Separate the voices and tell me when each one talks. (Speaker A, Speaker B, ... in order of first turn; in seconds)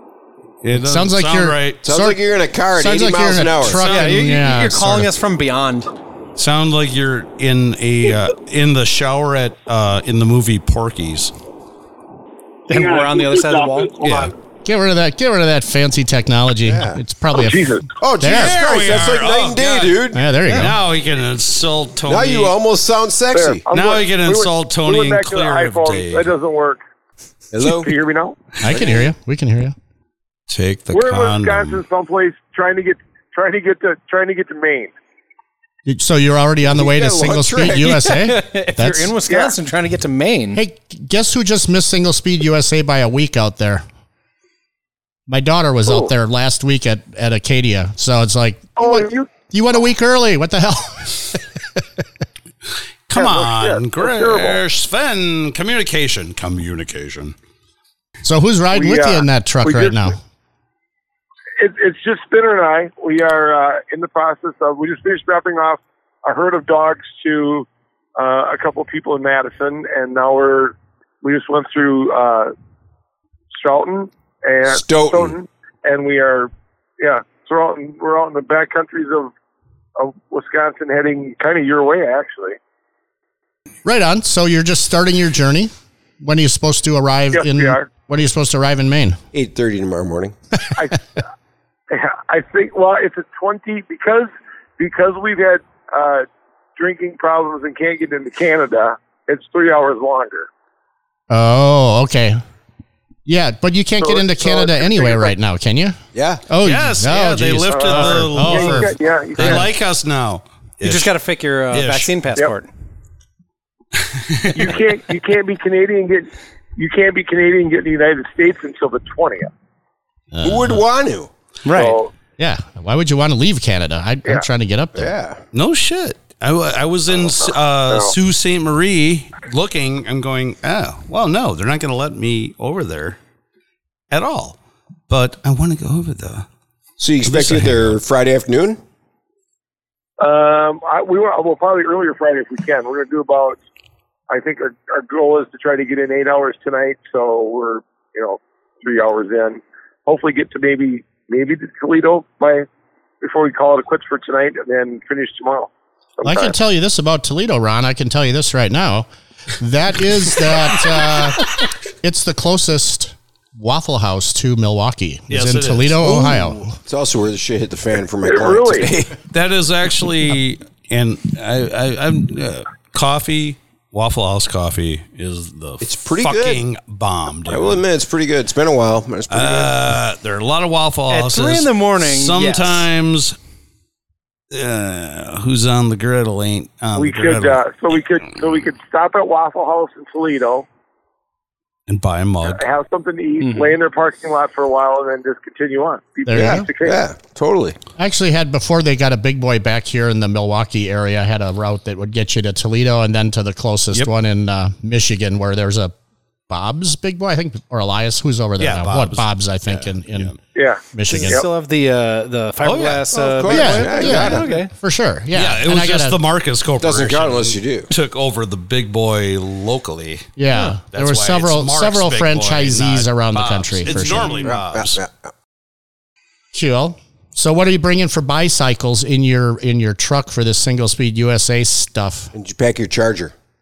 Speaker A: 0.6-1.8, 3.7-4.2, 6.3-11.3, 14.0-14.3, 18.3-22.5, 23.7-26.3, 30.5-31.8, 53.1-57.3, 106.6-111.1, 111.7-112.1, 114.1-114.8, 125.5-133.2, 134.1-134.6, 135.1-136.4, 137.2-138.0, 165.3-166.2, 169.3-177.8, 179.3-183.3, 184.5-187.6, 191.9-192.6, 208.6-210.3, 212.6-213.0, 215.3-220.3, 220.9-225.0
Speaker B: 0.7-2.2, 2.7-5.1, 14.6-18.6, 20.1-20.8, 28.6-29.7, 35.9-39.1, 40.5-43.8, 45.3-51.8, 58.2-60.2, 83.8-89.2, 101.3-102.4, 103.2-109.6, 120.3-120.8, 122.4-125.1, 156.2-159.1, 159.6-166.8, 196.3-196.7, 198.0-205.9, 206.5-210.4, 210.9-211.4, 213.5-216.2, 220.4-224.4, 226.5-232.3
Speaker C: 1.8-3.8, 16.6-17.0, 18.0-20.2, 22.1-23.6, 27.5-27.9, 36.7-38.1, 74.7-75.3, 89.3-90.4, 106.1-106.4, 120.4-121.3, 125.0-125.4, 137.0-138.8, 166.0-169.2, 175.8-176.6, 177.5-179.7, 196.3-197.8, 213.1-214.5, 216.8-217.9, 224.4-225.3, 232.3-233.3
Speaker D: 3.7-5.9, 12.7-14.0, 37.8-40.6, 110.8-112.7, 121.6-122.0, 181.1-182.8, 193.4-193.7, 211.1-214.7
Speaker E: 12.7-14.3, 17.3-17.9, 23.3-26.8, 27.6-28.4, 30.9-34.9, 39.3-39.5, 45.9-46.1, 48.8-49.3, 53.1-54.6, 58.7-60.1, 61.6-72.5, 73.5-79.3, 80.0-82.6, 87.3-87.9, 90.7-91.0, 91.9-100.5, 104.0-105.3, 107.7-109.7, 114.5-119.5, 121.7-122.1, 127.2-128.1, 140.2-143.6, 144.3-152.7, 153.2-156.5, 168.2-168.9, 186.9-190.7, 192.4-197.0, 210.5-211.4